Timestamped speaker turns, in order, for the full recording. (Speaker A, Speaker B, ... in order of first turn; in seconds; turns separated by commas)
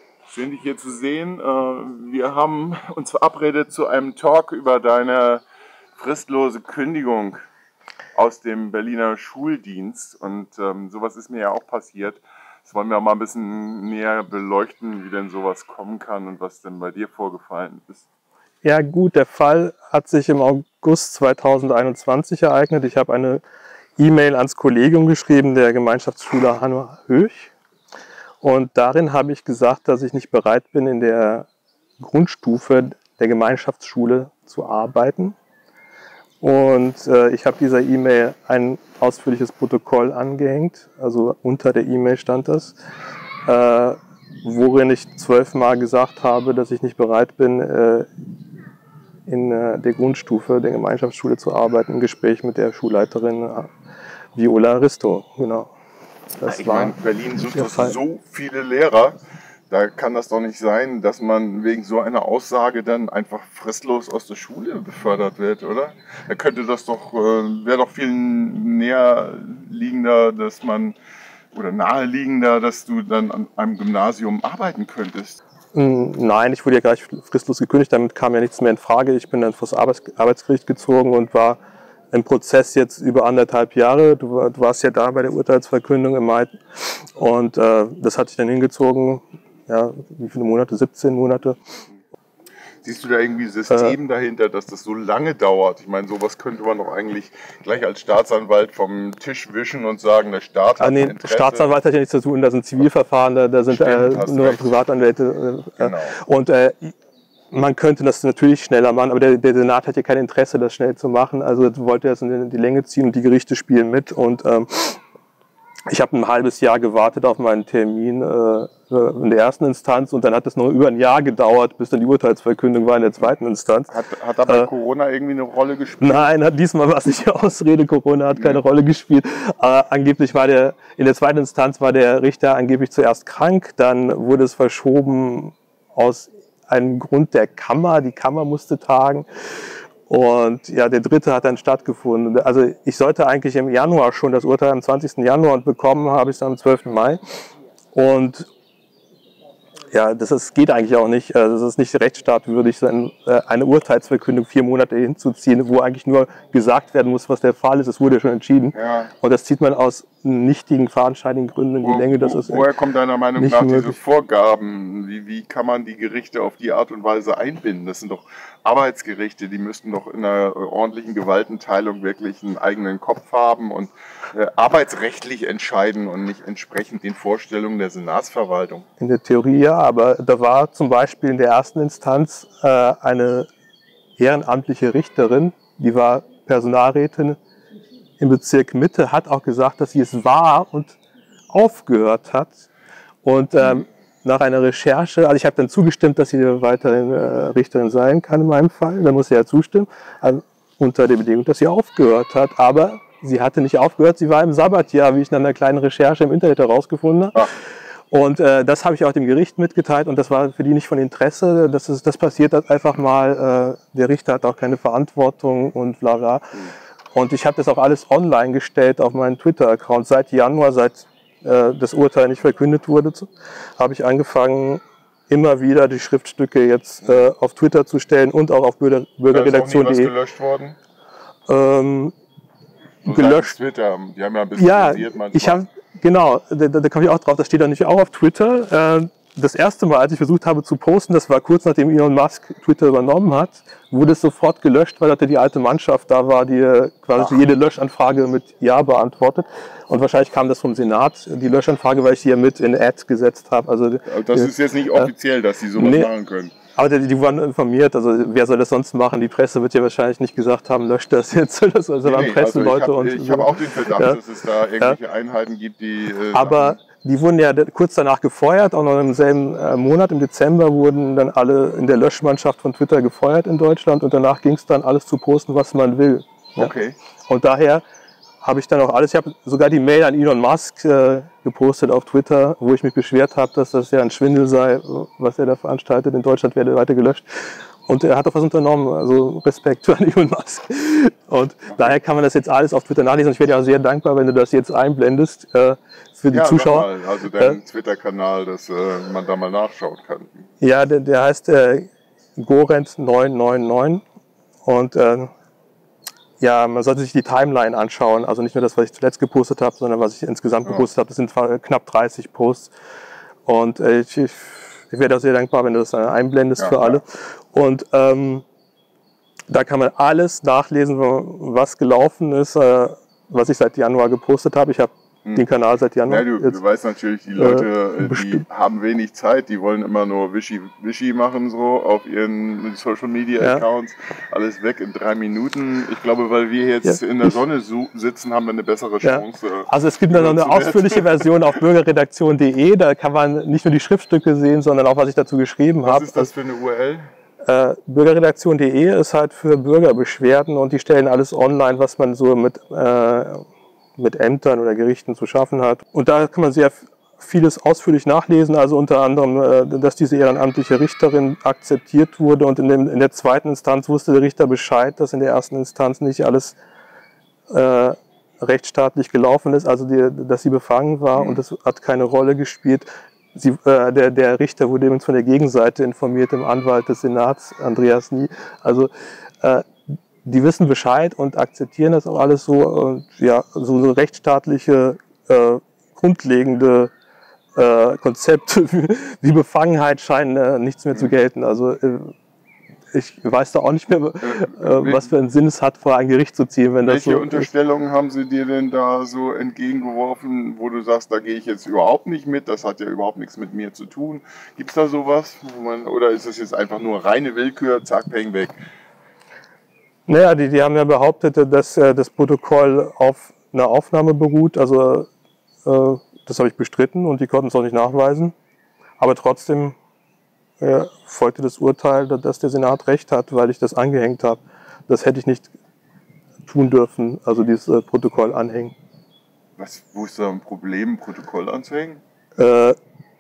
Speaker A: 0.3-5.4, Speaker A: 6.0-7.4, Speaker A: 8.2-18.1, Speaker B: 18.6-23.4, Speaker B: 24.0-27.5, Speaker B: 28.4-31.5, Speaker B: 32.0-35.4, Speaker B: 36.4-42.7, Speaker B: 43.5-48.1, Speaker B: 49.3-53.7, Speaker B: 54.4-55.7, Speaker B: 56.4-57.0, Speaker A: 56.4-59.2, Speaker B: 57.5-58.0, Speaker A: 59.7-71.0, Speaker A: 71.5-75.4, Speaker B: 75.7-81.6, Speaker B: 82.1-91.6, Speaker A: 92.8-101.7, Speaker B: 93.7-94.0, Speaker B: 100.8-107.0, Speaker A: 103.7-104.8, Speaker A: 105.8-106.2, Speaker B: 107.5-115.0, Speaker B: 115.9-123.9, Speaker A: 123.9-126.3, Speaker B: 126.0-139.3, Speaker B: 140.1-148.5, Speaker B: 149.9-162.7, Speaker A: 158.8-159.1, Speaker A: 161.8-178.9, Speaker B: 163.4-164.0, Speaker B: 179.0-183.5, Speaker B: 184.2-187.4, Speaker B: 188.2-191.0, Speaker B: 191.5-192.7, Speaker B: 193.2-207.4, Speaker A: 193.6-193.8, Speaker B: 208.1-216.6, Speaker B: 217.2-230.1, Speaker A: 227.0-227.3, Speaker A: 229.3-230.8, Speaker B: 231.5-232.1, Speaker A: 233.0-235.6, Speaker B: 233.1-233.5, Speaker B: 234.6-255.1, Speaker A: 254.1-256.5, Speaker B: 255.8-256.1, Speaker B: 256.8-264.2, Speaker A: 262.0-266.8, Speaker B: 266.3-276.7, Speaker A: 276.6-277.0, Speaker B: 277.3-277.8, Speaker B: 278.4-297.6, Speaker A: 296.3-300.5, Speaker B: 300.6-304.0, Speaker B: 304.6-305.3, Speaker B: 306.4-312.7, Speaker B: 313.5-318.4, Speaker A: 316.6-317.0, Speaker B: 319.5-326.6, Speaker A: 326.1-341.4, Speaker B: 327.4-328.4, Speaker B: 339.0-346.3, Speaker A: 345.9-347.0, Speaker B: 347.4-353.4, Speaker B: 354.0-366.6, Speaker B: 367.5-379.7, Speaker A: 371.1-371.4, Speaker B: 380.2-386.9, Speaker B: 387.6-392.1, Speaker B: 392.9-397.5, Speaker A: 394.2-395.1, Speaker A: 396.8-408.6, Speaker B: 410.1-415.1, Speaker B: 415.6-418.4, Speaker B: 419.0-419.8, Speaker B: 420.6-425.5, Speaker B: 426.5-428.8, Speaker A: 429.6-432.0, Speaker B: 432.4-432.8